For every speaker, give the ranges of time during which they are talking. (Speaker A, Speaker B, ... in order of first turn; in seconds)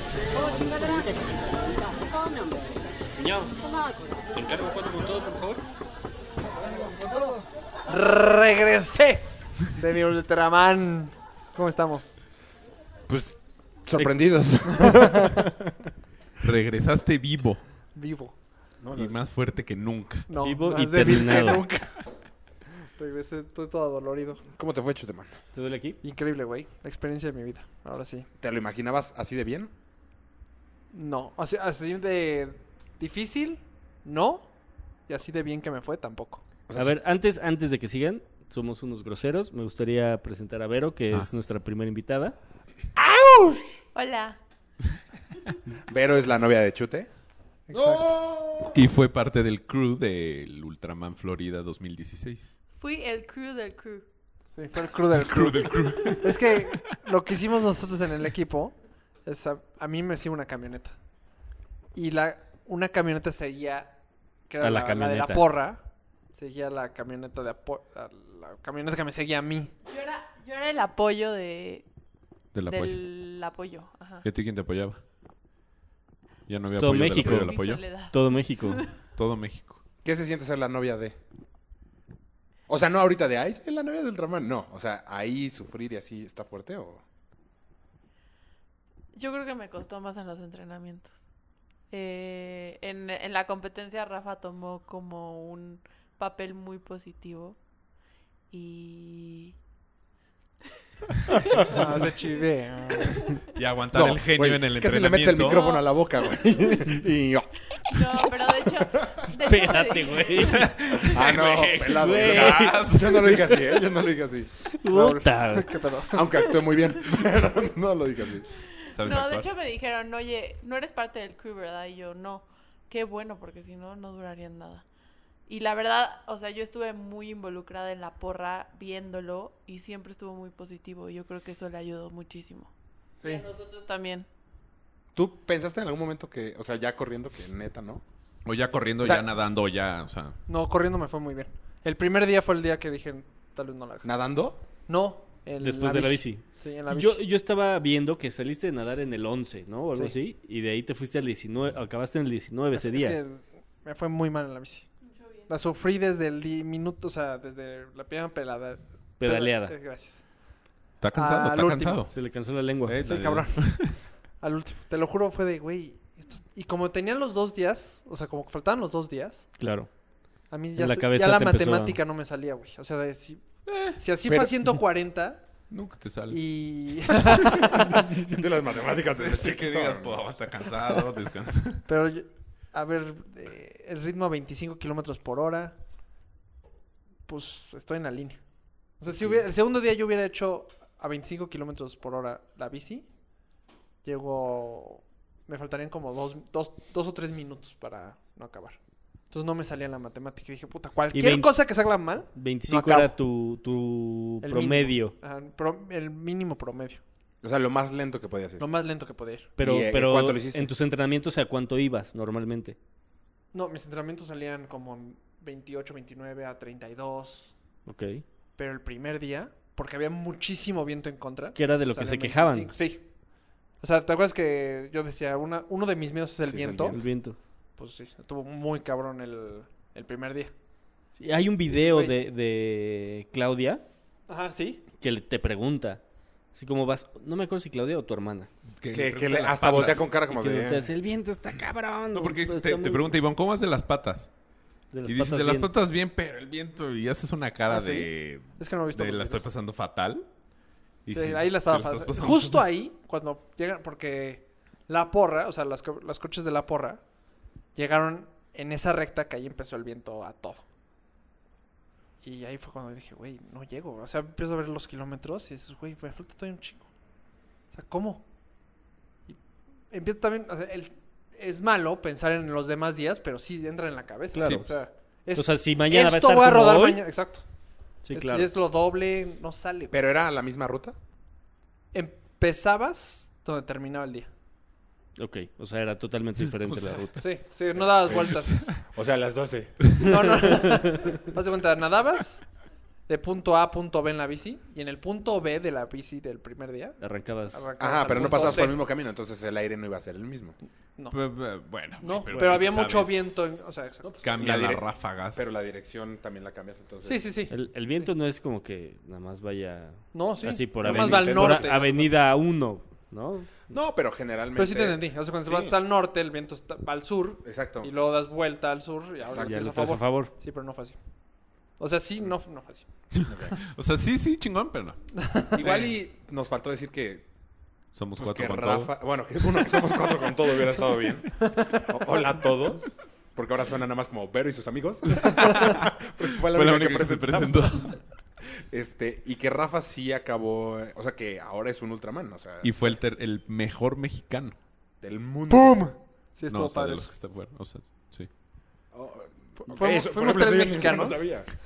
Speaker A: 0.6-0.9, 3.2-3.5, 4.3-5.6, 13.9-14.3, 20.4-21.6, 25.5-26.0, 36.7-42.4, 64.6-65.5, 76.7-77.5, 78.1-78.8, 109.3-110.8, 111.8-112.8, 114.8-115.8, 145.6-153.2, 159.2-159.7, 162.1-163.1, 169.6-169.9, 170.8-172.0, 201.1-201.6, 202.3-205.1, 209.6-212.8, 217.8-218.2, 221.5-222.7, 226.9-227.3, 231.1-233.8, 235.0-236.0, 236.5-238.5, 240.3-243.1, 244.9-245.7, 274.3-274.7, 275.3-277.1, 278.0-278.5, 285.2-287.2, 297.0-297.7, 302.3-302.6, 307.5-313.7, 319.3-320.3
Speaker B: 7.9-12.2, 14.8-15.3, 17.9-18.4, 20.3-22.1, 22.8-24.4, 26.0-28.3, 30.9-34.5, 35.1-36.4, 43.0-43.8, 47.7-48.1, 54.5-61.0, 61.9-63.9, 64.5-69.7, 101.7-103.4, 114.9-116.8, 140.5-144.1, 144.9-147.2, 152.7-154.9, 155.5-160.4, 161.1-162.1, 163.0-169.6, 170.5-175.7, 176.3-178.1, 181.8-185.8, 187.3-188.4, 189.0-193.1, 194.0-198.8, 199.3-203.2, 204.4-207.0, 208.6-209.5, 213.5-217.5, 218.6-223.1, 223.8-227.0, 227.8-230.5, 231.7-232.2, 234.3-234.8, 247.7-249.5, 251.1-257.0, 257.7-260.6, 262.2-266.9, 267.7-268.2, 269.9-277.4, 278.1-280.0, 281.9-284.3, 287.2-288.7, 289.9-292.4, 293.1-297.0, 297.5-298.8, 302.0-304.2, 307.0-308.0, 310.1-312.1, 314.6-321.0, 321.8-322.9, 331.5-331.8, 345.5-347.1, 349.6-351.3
Speaker C: 13.1-15.9, 18.8-19.1, 24.5-25.4, 28.4-29.7, 45.9-47.1, 47.7-48.8, 80.0-81.2, 82.7-87.0, 103.9-109.2, 111.0-114.5, 116.1-118.5, 135.1-138.0, 144.0-144.6, 174.2-174.5, 177.9-180.3, 207.4-208.7, 209.6-210.7, 226.4-227.0, 238.9-240.9, 279.9-280.9, 288.9-290.0, 297.8-300.6, 304.0-307.3, 310.8-311.8, 313.7-315.7, 317.4-317.9, 319.3-319.6, 323.2-323.6, 325.6-327.2, 328.2-337.9, 338.4-342.7, 345.0-345.9, 348.9-351.5
Speaker D: 16.4-17.6, 18.9-20.3, 48.7-52.6, 55.1-56.9, 72.5-73.0, 74.2-75.0, 76.5-77.8, 79.2-79.8, 103.5-105.7, 110.4-113.5, 118.8-119.5, 138.4-140.4, 161.0-162.1, 162.8-164.0, 173.7-174.0, 175.7-176.5, 179.1-181.8, 238.8-240.1, 242.1-244.3, 245.1-250.3, 251.0-252.7, 286.7-287.0, 301.1-303.6, 304.2-305.5, 323.2-325.0, 325.5-326.0, 327.9-328.9, 335.1-338.0, 342.6-344.6, 346.5-348.3
Speaker E: 43.9-44.4, 52.8-54.0, 69.8-71.8, 72.7-74.2, 77.2-78.9, 89.1-91.2, 91.9-97.6, 98.5-99.5, 102.9-103.5, 105.3-106.9, 107.8-111.0, 118.9-124.8, 125.5-134.3, 155.0-155.5